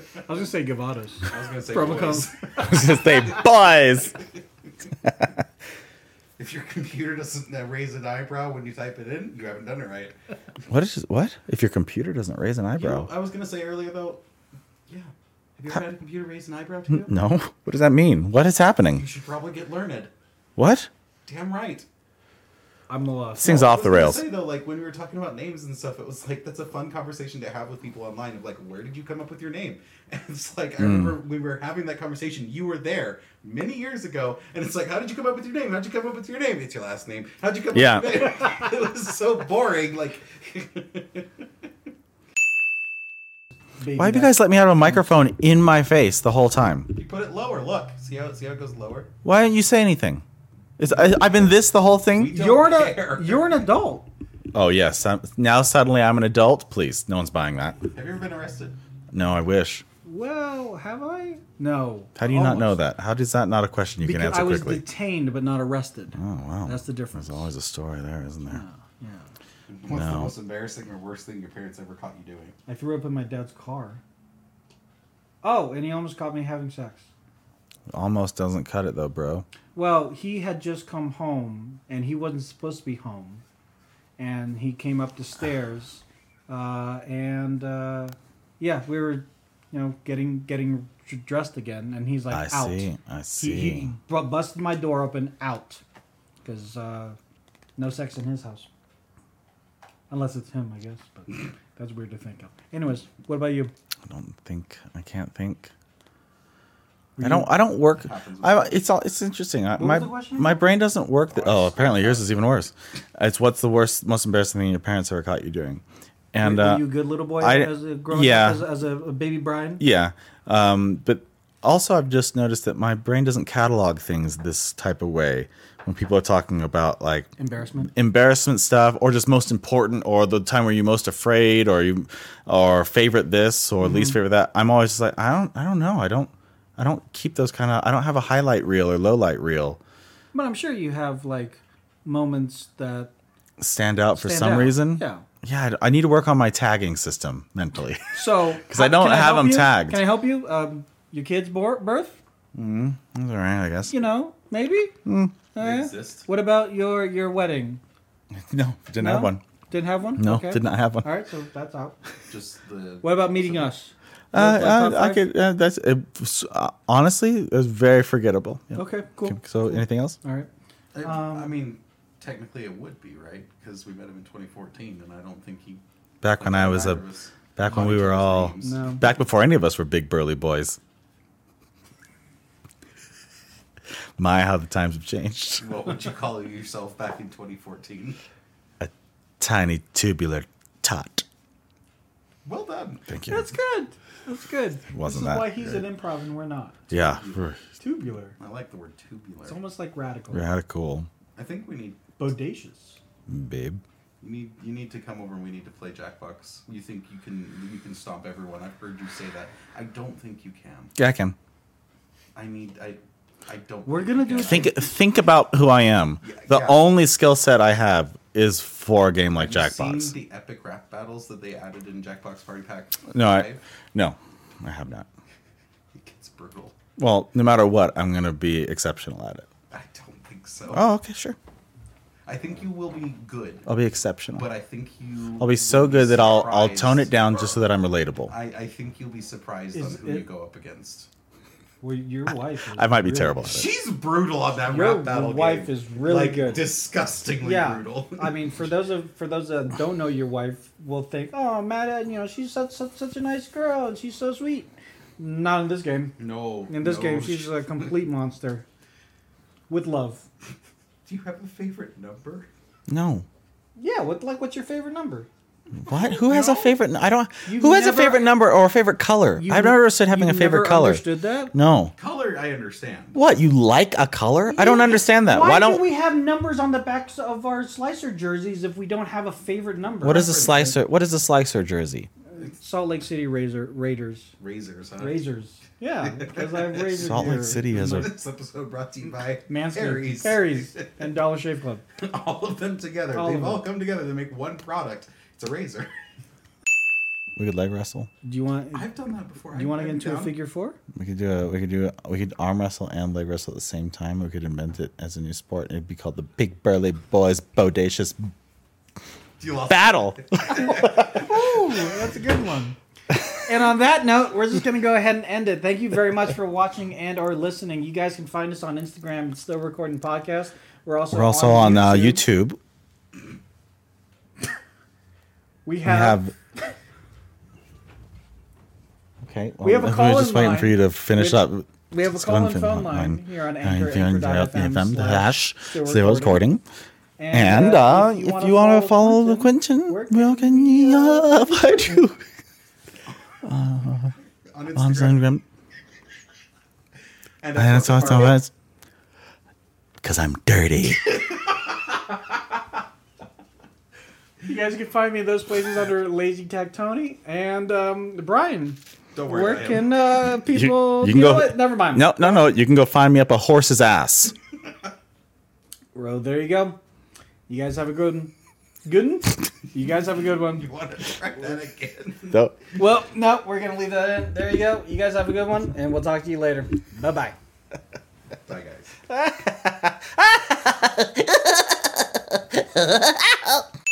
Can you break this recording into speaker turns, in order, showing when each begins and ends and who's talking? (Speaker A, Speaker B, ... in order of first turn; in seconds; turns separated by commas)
Speaker A: 0.2-2.8, Speaker B: 1.3-3.5, Speaker C: 2.6-4.2, Speaker B: 6.4-10.2, Speaker C: 10.7-13.1, Speaker B: 12.8-14.2, Speaker B: 14.9-17.1, Speaker C: 16.9-19.1, Speaker B: 19.0-20.1, Speaker C: 20.6-20.9, Speaker B: 21.3-21.9, Speaker A: 22.9-23.7, Speaker C: 23.4-24.2, Speaker B: 23.4-41.3, Speaker C: 30.8-31.1, Speaker C: 37.7-38.3, Speaker A: 43.8-45.0, Speaker C: 44.0-46.9, Speaker B: 46.9-49.1, Speaker C: 49.2-50.2, Speaker C: 50.8-52.4, Speaker B: 52.1-53.7, Speaker A: 52.3-54.1, Speaker C: 54.5-57.8, Speaker B: 57.9-58.8, Speaker C: 59.1-59.9, Speaker A: 60.0-62.8, Speaker C: 62.2-64.8, Speaker A: 64.0-67.5, Speaker C: 66.2-68.6, Speaker A: 68.5-69.3, Speaker B: 69.7-72.6, Speaker C: 69.9-70.3, Speaker A: 72.7-74.0, Speaker A: 75.4-77.1, Speaker C: 77.9-79.5, Speaker A: 79.8-83.4, Speaker A: 84.2-95.8, Speaker C: 92.3-93.9, Speaker A: 96.4-97.2, Speaker A: 97.8-98.7, Speaker A: 100.1-103.7, Speaker C: 104.1-105.7, Speaker A: 107.2-107.5, Speaker C: 107.2-118.6, Speaker B: 107.8-108.8, Speaker A: 109.8-110.7, Speaker B: 111.3-112.4, Speaker A: 116.4-119.8, Speaker C: 119.8-127.3, Speaker A: 127.4-127.9, Speaker C: 127.8-139.8, Speaker A: 133.8-134.2, Speaker A: 140.3-143.1, Speaker C: 143.6-150.0, Speaker A: 144.1-145.2, Speaker A: 148.1-152.2, Speaker C: 152.6-153.9, Speaker A: 153.9-154.9, Speaker C: 155.1-155.3, Speaker A: 155.5-157.8, Speaker B: 155.6-156.3, Speaker C: 158.3-159.4, Speaker A: 159.0-162.0, Speaker C: 160.2-161.1, Speaker B: 162.3-163.7, Speaker A: 163.0-165.3, Speaker C: 164.3-170.2, Speaker A: 168.8-170.5, Speaker B: 170.9-175.8, Speaker A: 171.0-171.5, Speaker C: 176.2-177.0, Speaker B: 176.3-179.1, Speaker C: 177.6-180.8, Speaker A: 178.6-179.0, Speaker C: 184.2-185.7, Speaker B: 185.6-188.2, Speaker C: 188.8-191.2, Speaker B: 192.4-193.1, Speaker C: 193.1-193.5, Speaker A: 193.3-196.9, Speaker C: 194.9-195.8, Speaker C: 196.9-197.6, Speaker B: 196.9-197.4, Speaker A: 197.8-198.3, Speaker B: 198.4-199.6, Speaker A: 199.5-200.5, Speaker C: 200.3-201.1, Speaker B: 201.4-202.0, Speaker A: 202.2-203.0, Speaker C: 203.3-203.8, Speaker B: 204.2-210.9, Speaker C: 211.0-211.4, Speaker B: 212.3-214.8, Speaker A: 213.9-214.9, Speaker C: 214.4-220.1, Speaker B: 216.2-216.8, Speaker B: 219.4-223.6, Speaker C: 223.1-225.1, Speaker B: 225.9-226.8, Speaker C: 227.0-229.5, Speaker B: 229.7-230.9, Speaker C: 230.7-231.4, Speaker B: 232.3-233.7, Speaker C: 233.7-234.5, Speaker B: 234.4-237.6, Speaker C: 235.4-238.3, Speaker B: 238.3-241.1, Speaker A: 239.7-240.3, Speaker A: 241.8-243.4, Speaker C: 242.3-243.7, Speaker B: 243.4-248.7, Speaker A: 244.7-246.7, Speaker A: 247.4-256.2, Speaker B: 256.2-257.9, Speaker A: 256.7-258.6, Speaker A: 259.7-260.2, Speaker B: 261.1-262.5, Speaker C: 262.9-263.3, Speaker A: 263.8-265.3, Speaker C: 265.8-271.9, Speaker B: 265.9-266.8, Speaker A: 267.5-268.3, Speaker A: 269.4-271.5, Speaker B: 272.0-273.2, Speaker C: 273.1-275.9, Speaker A: 274.5-280.8, Speaker C: 280.0-282.1, Speaker B: 280.2-280.7, Speaker A: 282.3-284.3, Speaker B: 284.4-285.3, Speaker A: 285.0-288.1, Speaker B: 286.1-287.1, Speaker C: 286.9-288.1, Speaker B: 287.6-291.1, Speaker A: 289.5-291.8, Speaker B: 292.0-295.9, Speaker A: 293.1-293.6, Speaker C: 297.4-298.1, Speaker A: 298.2-298.9, Speaker B: 298.7-300.4, Speaker A: 299.5-300.8, Speaker C: 300.9-308.3, Speaker B: 309.4-311.1, Speaker C: 309.7-311.2, Speaker A: 310.8-312.8, Speaker A: 313.5-322.2, Speaker C: 321.1-322.6, Speaker A: 325.6-326.3, Speaker C: 325.8-326.3, Speaker C: 329.2-336.6, Speaker A: 329.6-336.4, Speaker A: 337.2-342.0, Speaker C: 337.3-342.2, Speaker C: 343.4-344.1, Speaker B: 344.5-345.2, Speaker C: 344.8-345.4, Speaker B: 347.4-348.4, Speaker C: 347.6-348.5, Speaker C: 350.0-351.2, Speaker A: 354.4-362.5, Speaker B: 359.1-359.9, Speaker C: 360.3-364.3, Speaker A: 365.9-366.8, Speaker A: 367.5-368.3, Speaker A: 368.9-370.7, Speaker B: 370.5-372.4, Speaker C: 372.3-372.6, Speaker A: 372.7-377.4, Speaker B: 378.5-378.9, Speaker C: 379.1-381.6, Speaker C: 382.6-383.1